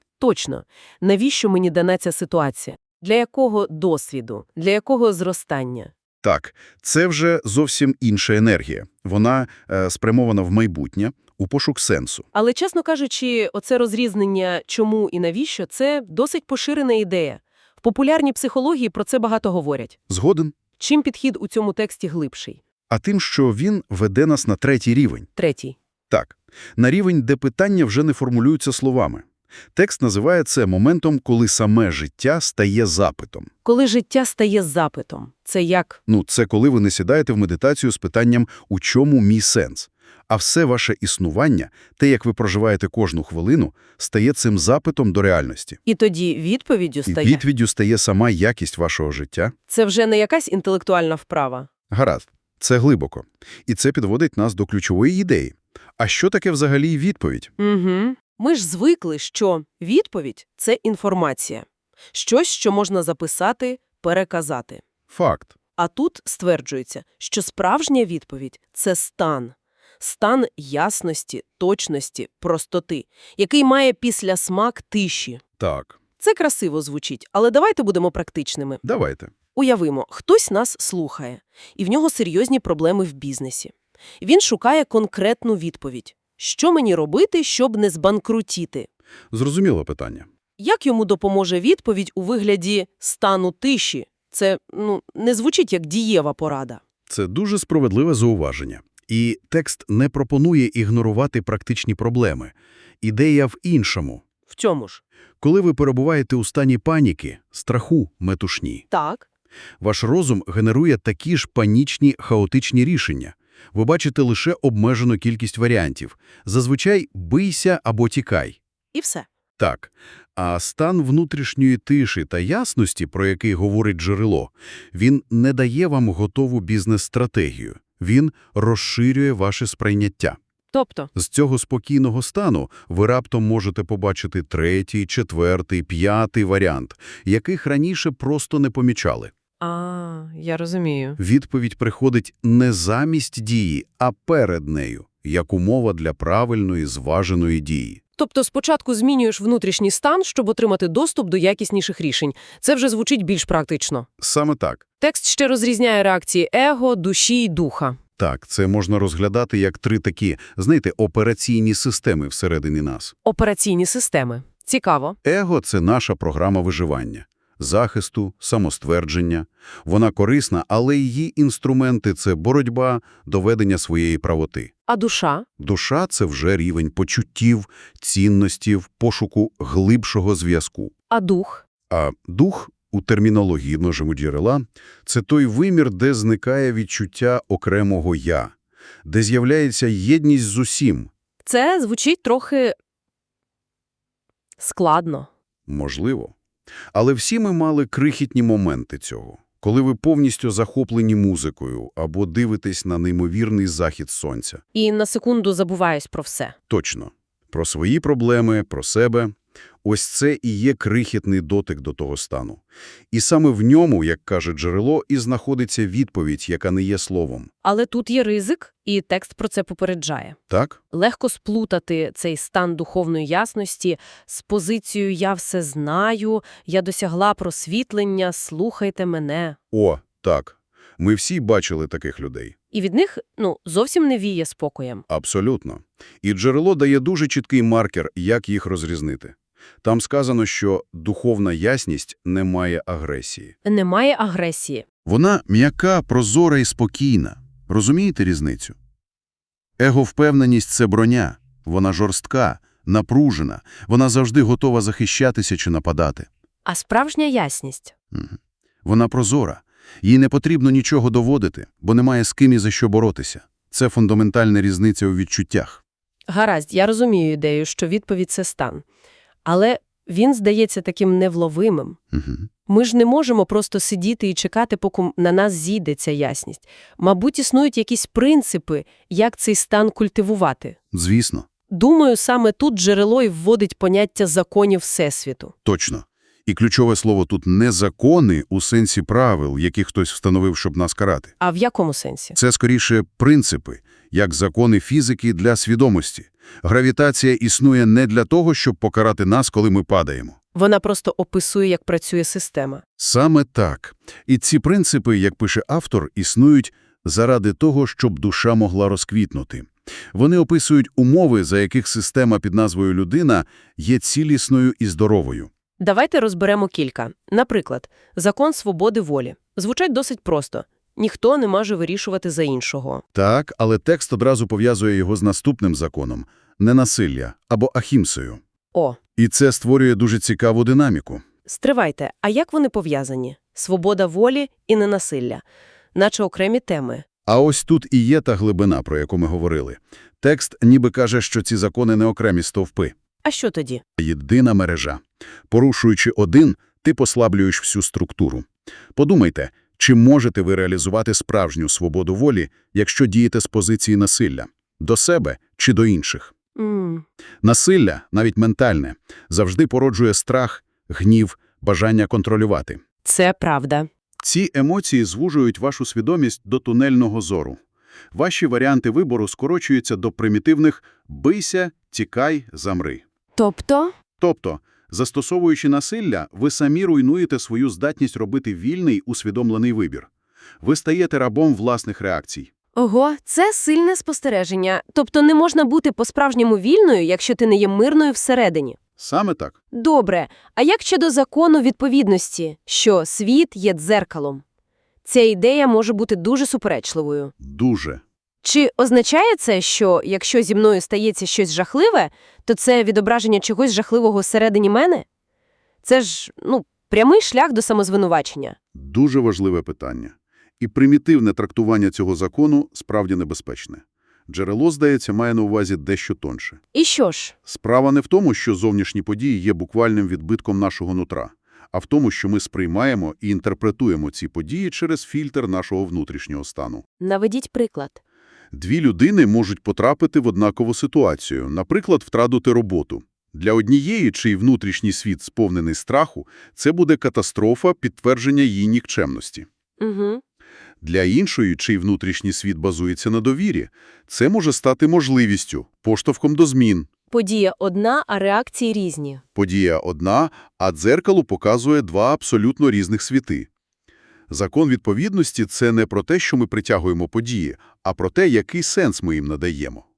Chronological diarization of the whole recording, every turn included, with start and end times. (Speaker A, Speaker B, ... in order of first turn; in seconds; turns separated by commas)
Speaker A: 0.2-5.9, Speaker B: 6.2-12.2, Speaker A: 12.3-20.0, Speaker B: 20.1-20.6, Speaker A: 20.8-22.6, Speaker B: 22.9-25.3, Speaker A: 25.4-25.8, Speaker B: 26.1-29.2, Speaker B: 29.8-33.5, Speaker A: 33.6-36.0, Speaker B: 36.1-45.8, Speaker A: 45.9-47.4, Speaker B: 47.1-49.5, Speaker A: 49.7-51.7, Speaker B: 51.9-57.5, Speaker A: 57.6-64.8, Speaker B: 65.1-65.5, Speaker A: 65.8-75.4, Speaker B: 75.6-76.0, Speaker A: 76.2-78.8, Speaker B: 78.8-79.3, Speaker A: 79.5-88.9, Speaker B: 89.3-90.3, Speaker A: 90.6-96.8, Speaker B: 97.1-104.2, Speaker A: 104.5-105.0, Speaker B: 105.4-108.8, Speaker A: 108.9-109.3, Speaker B: 109.8-118.6, Speaker A: 118.9-119.3, Speaker B: 119.6-130.4, Speaker A: 130.7-131.1, Speaker B: 131.2-139.3, Speaker A: 139.6-141.2, Speaker B: 141.2-148.0, Speaker A: 148.2-154.1, Speaker B: 154.2-154.8, Speaker A: 155.0-158.0, Speaker B: 158.2-163.1, Speaker A: 163.2-165.2, Speaker B: 165.2-174.7, Speaker A: 174.9-175.5, Speaker B: 175.6-180.9, Speaker A: 181.1-181.7, Speaker B: 181.9-188.5, Speaker B: 189.0-191.1, Speaker A: 191.4-192.8, Speaker A: 194.6-195.3, Speaker B: 195.7-196.3, Speaker B: 196.9-204.6, Speaker A: 204.7-206.6, Speaker B: 206.7-209.3, Speaker B: 209.8-217.5, Speaker A: 217.6-220.4, Speaker B: 220.5-220.8, Speaker A: 220.9-229.6, Speaker B: 229.7-232.6, Speaker A: 232.7-235.0, Speaker B: 235.1-243.5, Speaker A: 243.7-244.8, Speaker B: 245.1-248.8, Speaker B: 249.8-256.3, Speaker A: 256.7-257.9, Speaker B: 258.1-265.8, Speaker A: 266.3-268.8, Speaker A: 269.4-272.0, Speaker B: 272.1-272.5, Speaker A: 272.7-280.8, Speaker B: 280.9-281.5, Speaker A: 281.7-285.5, Speaker B: 285.6-291.3, Speaker A: 291.4-292.4, Speaker B: 292.4-300.4, Speaker A: 300.6-302.8, Speaker B: 303.0-315.5, Speaker A: 315.8-323.0, Speaker B: 323.1-328.4, Speaker A: 328.7-329.0, Speaker B: 329.2-331.2, Speaker A: 331.5-335.4, Speaker A: 335.9-337.0, Speaker B: 337.3-342.9, Speaker A: 343.2-343.8, Speaker B: 344.0-356.3, Speaker A: 356.6-357.1, Speaker B: 357.4-362.8, Speaker A: 363.0-363.9, Speaker B: 364.2-367.6, Speaker B: 368.1-373.0, Speaker A: 373.4-373.9, Speaker B: 374.2-380.1, Speaker B: 380.6-382.5, Speaker A: 382.8-388.8, Speaker B: 389.0-389.6, Speaker A: 389.7-394.4, Speaker A: 395.1-397.3, Speaker B: 397.4-398.0, Speaker A: 398.4-405.1, Speaker A: 405.8-408.6, Speaker B: 408.8-416.6, Speaker A: 416.7-417.4, Speaker B: 417.5-426.8, Speaker A: 427.0-428.0, Speaker B: 428.5-439.5, Speaker A: 439.8-440.2, Speaker B: 440.8-446.9, Speaker A: 447.1-449.2, Speaker B: 449.4-453.5, Speaker B: 454.3-459.9